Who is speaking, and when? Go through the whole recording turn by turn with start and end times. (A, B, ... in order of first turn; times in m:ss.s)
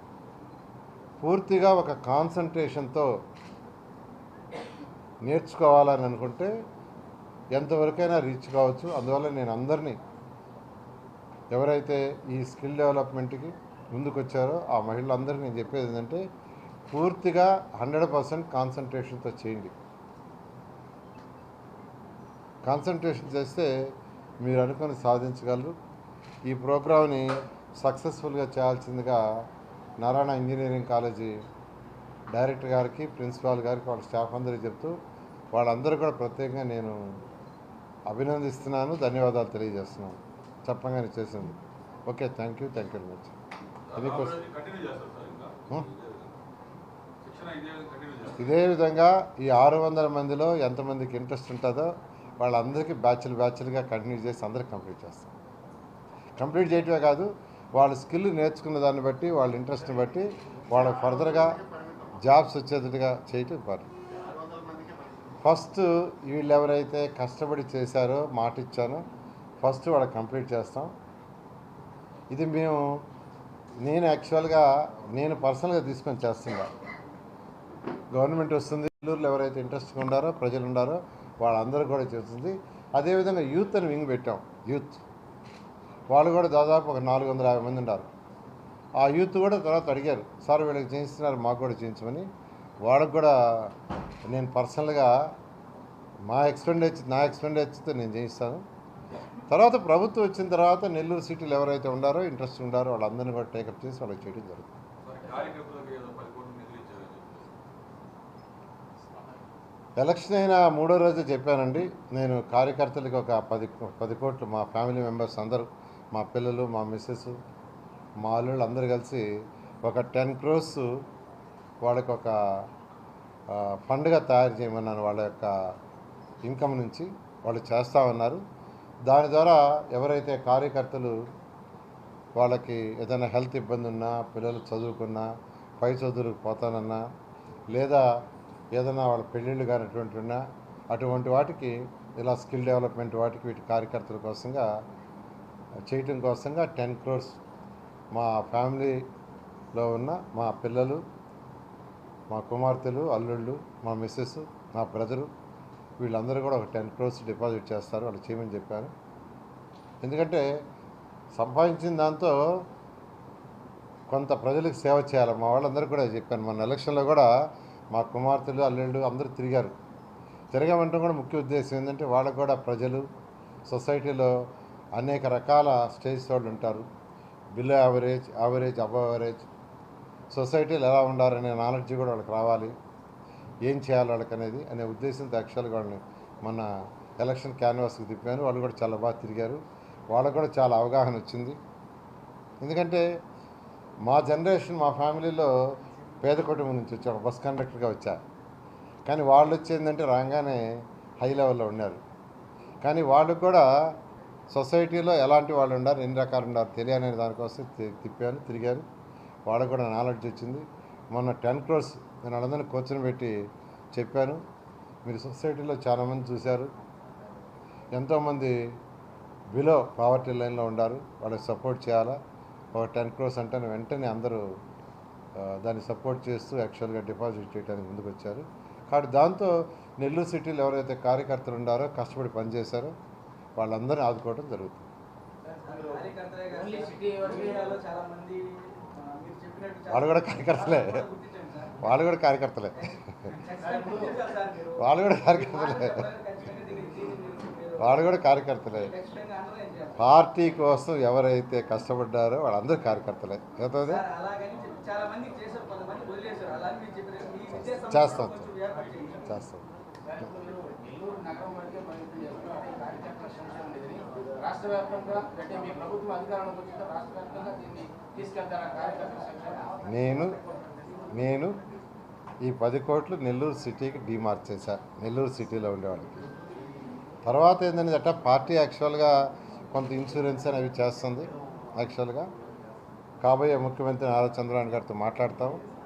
0:01.2-0:03.1 A
0:05.2-0:06.5 A
0:07.5-0:10.0 A
0:11.5-0:16.2 A
0:16.9-0:19.7 A
0:22.6-0:23.9 A
0:24.4-0:25.7 A
0:26.5-0:29.2 A
0:30.0-0:31.4 A
0:32.3-0:34.9 A
0:35.5-0:37.2 A
0:38.1-0:43.4 A
0:43.9-0:46.4 B
0:44.0-0:44.4 A
0:47.2-0:48.5 B
0:48.4-0:55.3 A
0:56.4-1:01.7 A
1:02.2-1:03.9 A
1:05.4-1:09.0 A
1:09.6-1:10.9 A
1:12.3-1:13.0 A
1:13.8-1:16.7 A
1:18.1-1:25.0 A
1:26.1-1:28.1 A
1:29.0-1:32.3 A
1:32.8-1:33.7 A
1:34.3-1:35.3 A
1:36.3-1:38.6 A
1:39.5-1:44.8 A
1:45.0-1:47.5 B
1:50.0-1:57.4 A
1:58.2-1:59.3 A
1:59.8-2:01.0 A
2:01.8-2:02.4 A
2:03.5-2:05.5 A
2:06.4-2:08.4 A
2:09.0-2:11.2 A
2:12.4-2:15.3 A
2:15.8-2:17.0 A
2:17.7-2:18.1 A
2:18.7-2:24.7 A
2:25.9-2:27.4 A
2:28.1-2:29.0 A
2:29.7-2:31.0 A
2:32.3-2:35.3 A
2:36.0-2:38.9 A
2:40.0-2:40.5 A
2:41.3-2:42.6 A
2:44.1-2:47.3 A
2:47.9-2:49.8 A
2:50.5-2:53.0 A
2:53.6-2:56.8 A
2:57.5-2:59.5 A
3:00.3-3:02.7 A
3:03.6-3:06.7 A
3:07.2-3:11.6 A
3:12.6-3:13.0 A
3:14.0-3:15.5 A
3:16.2-3:18.2 A
3:19.0-3:20.7 A
3:21.2-3:22.0 A
3:22.8-3:23.7 A
3:24.5-3:28.8 A
3:29.5-3:33.4 A
3:33.9-3:34.4 A
3:35.0-3:36.7 A
3:37.9-3:38.6 A
3:39.5-3:42.2 A
3:42.7-3:44.4 A
3:45.4-3:52.9 A
3:53.6-3:54.9 A
3:55.6-4:01.8 C
3:55.6-3:56.0 D
3:56.5-3:57.7 D
3:59.9-4:01.1 A
4:01.8-4:03.4 A
4:02.8-4:08.1 C
4:03.6-4:04.2 D
4:04.8-4:06.1 A
4:07.8-4:08.9 A
4:08.9-4:10.0 C
4:10.0-4:14.0 A
4:13.9-4:19.3 C
4:17.5-4:18.5 A
4:19.2-4:19.7 A
4:20.1-4:29.6 D
4:29.8-4:30.4 A
4:31.1-4:31.6 A
4:32.4-4:36.3 A
4:37.2-4:39.2 A
4:39.7-4:42.3 A
4:43.2-4:45.6 A